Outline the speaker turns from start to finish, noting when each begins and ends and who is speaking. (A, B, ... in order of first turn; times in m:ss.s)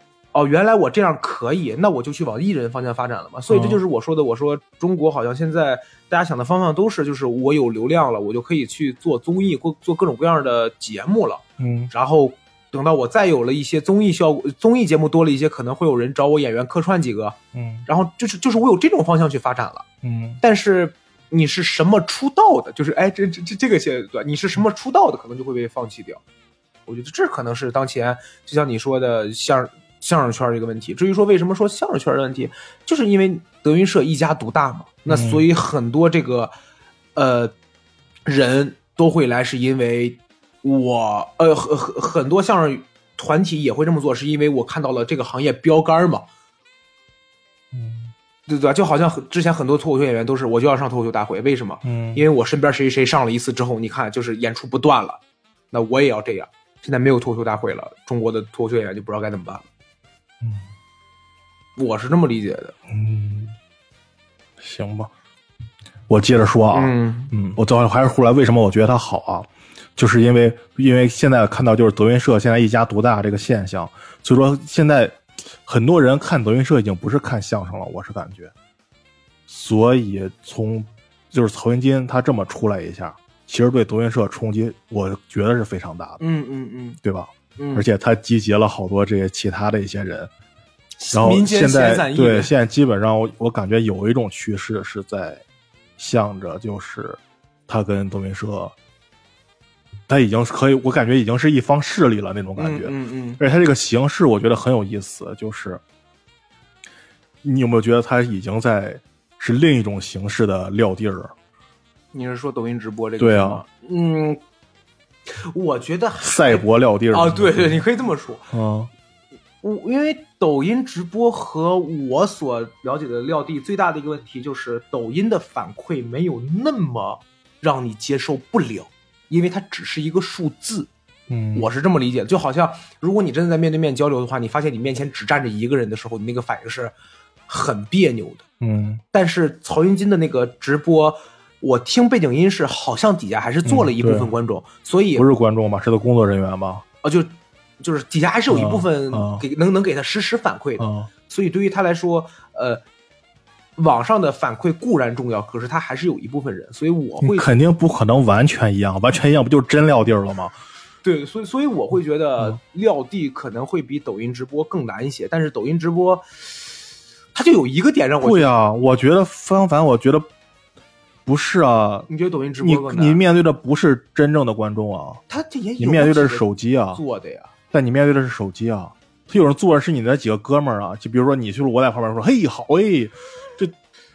0:00.3-0:19.8 A
0:03.5-0:03.8 B
0:11.6-0:11.9 B
0:17.5-0:17.9 B
0:20.0-0:20.4 B
0:20.4-0:26.2 A
0:26.9-0:36.5 A
0:35.1-0:35.4 B
0:37.2-0:37.5 A
0:38.2-0:46.3 A
0:47.7-0:48.1 B
0:48.5-0:55.2 A
0:51.8-0:52.2 B
0:55.7-0:59.7 A
1:01.8-1:02.7 A
1:02.9-1:03.5 B
1:04.6-1:05.1 B
1:06.1-1:18.5 B
1:06.7-1:07.3 A
1:19.5-1:26.2 B
1:26.2-1:27.0 A
1:27.0-1:30.3 B
1:27.6-1:27.9 A
1:31.0-1:32.5 A
1:31.1-1:35.4 B
1:36.0-1:38.7 B
1:40.1-1:45.8 B
1:42.6-1:43.4 A
1:47.4-1:51.3 B
1:52.1-1:54.4 A
1:53.2-1:53.6 B
1:55.3-1:58.5 A
1:56.2-1:57.8 B
1:58.5-1:58.9 B
1:59.6-2:10.9 A
2:11.3-2:11.7 B
2:11.5-2:16.9 A
2:17.5-2:18.4 A
2:18.6-2:19.0 B
2:19.1-2:25.3 A
2:23.6-2:24.3 B
2:25.2-2:26.8 B
2:27.0-2:32.8 A
2:28.5-2:29.4 B
2:30.8-2:31.1 B
2:33.8-2:37.5 A
2:37.2-2:40.5 B
2:41.0-2:46.2 A
2:47.3-2:48.5 A
2:48.2-2:50.3 B
2:51.2-2:52.1 B
2:52.1-2:53.2 A
2:52.6-2:55.2 B
2:55.3-2:57.5 A
2:55.8-2:57.0 B
2:57.7-3:03.7 B